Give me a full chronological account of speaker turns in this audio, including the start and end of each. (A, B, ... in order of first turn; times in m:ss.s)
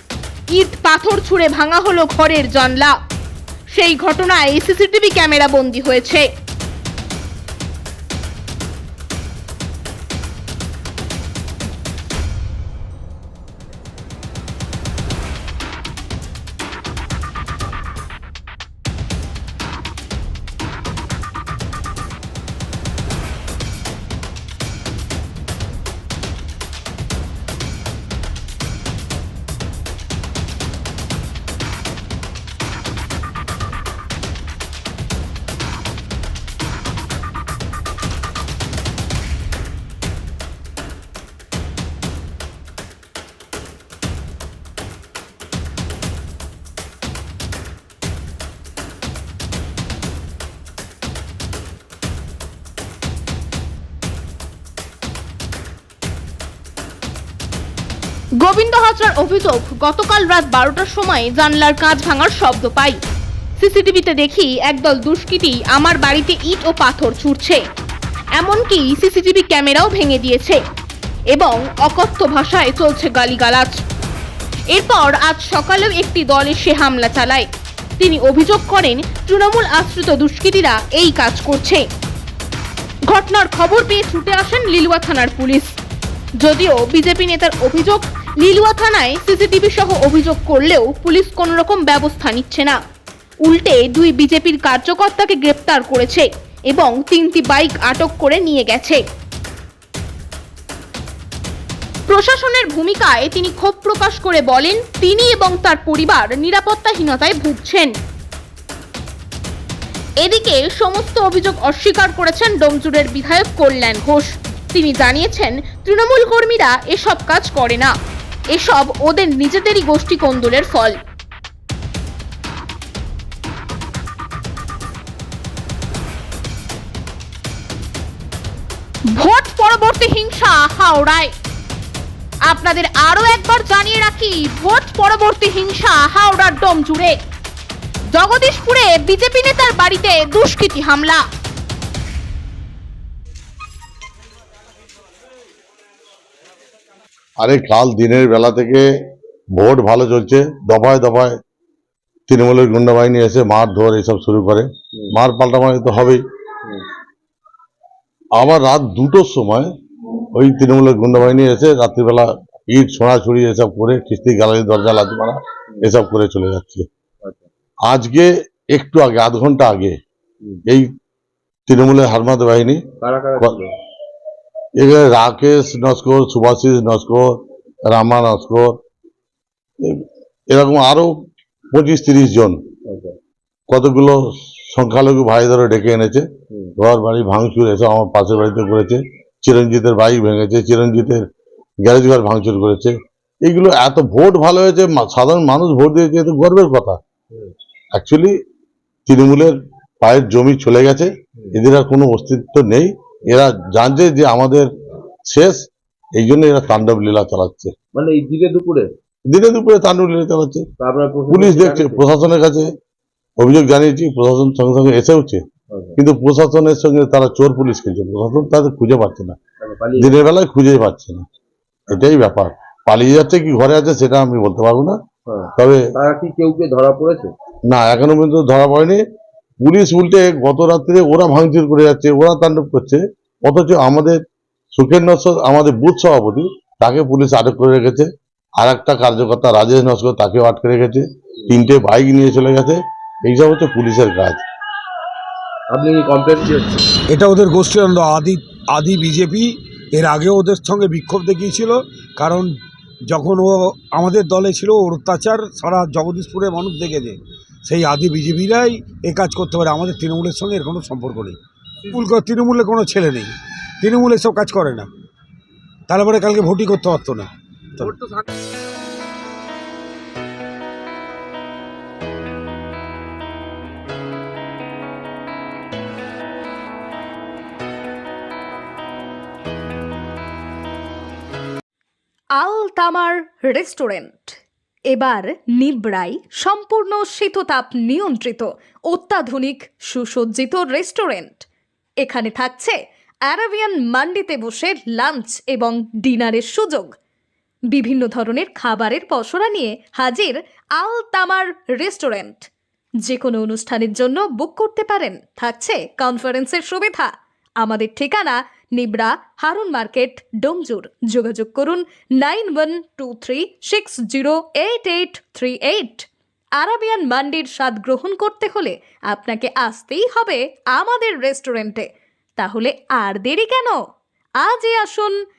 0:00.5-0:03.0 A
0:03.7-0:06.2 A
0:58.4-1:03.0 A
1:03.6-1:07.6 A
1:08.4-1:10.6 A
1:11.3-1:13.8 A
1:14.7-1:17.4 A
1:18.0-1:21.8 A
1:23.1-1:25.8 A
1:26.4-1:32.8 A
1:33.4-1:39.0 A
1:42.1-1:47.9 A
1:50.2-1:57.9 A
1:58.5-2:01.0 A
2:09.1-2:11.3 A
2:12.5-2:17.2 A
2:18.1-2:21.2 A
2:27.4-2:28.9 B
2:29.6-2:31.4 B
2:32.3-2:36.2 B
2:34.9-2:35.2 C
2:38.4-2:39.7 B
2:40.3-2:46.9 B
2:47.2-2:47.5 C
2:47.9-2:50.0 B
2:51.7-2:52.8 B
2:53.0-2:53.7 C
2:54.8-2:58.8 B
2:59.8-3:01.1 B
3:01.7-3:02.6 B
3:02.9-3:03.2 C
3:03.7-3:06.2 B
3:06.8-3:11.2 B
3:11.8-3:17.0 B
3:17.9-3:18.3 B
3:19.1-3:24.7 B
3:25.3-3:25.6 B
3:26.2-3:27.7 B
3:27.9-3:28.9 C
3:29.3-3:30.7 B
3:30.8-3:32.1 C
3:31.3-3:32.7 B
3:33.4-3:35.4 B
3:35.7-3:36.0 C
3:36.0-3:39.4 B
3:39.6-3:40.2 C
3:40.0-3:41.2 B
3:41.9-3:45.0 B
3:45.3-3:47.3 C
3:45.6-3:45.8 B
3:47.7-3:49.0 B
3:49.6-3:54.2 B
3:54.7-3:58.1 B
3:58.6-4:04.4 B
4:05.7-4:06.8 C
4:07.1-4:12.6 D
4:13.1-4:21.4 D
4:21.9-4:24.9 D
4:25.9-4:28.0 D
4:42.4-4:44.4 E
4:44.9-4:51.4 E
4:52.0-4:52.8 E
4:53.3-4:56.9 E
4:57.7-5:02.5 E
5:03.0-5:16.1 E
5:16.6-5:23.8 E
5:24.4-5:25.2 E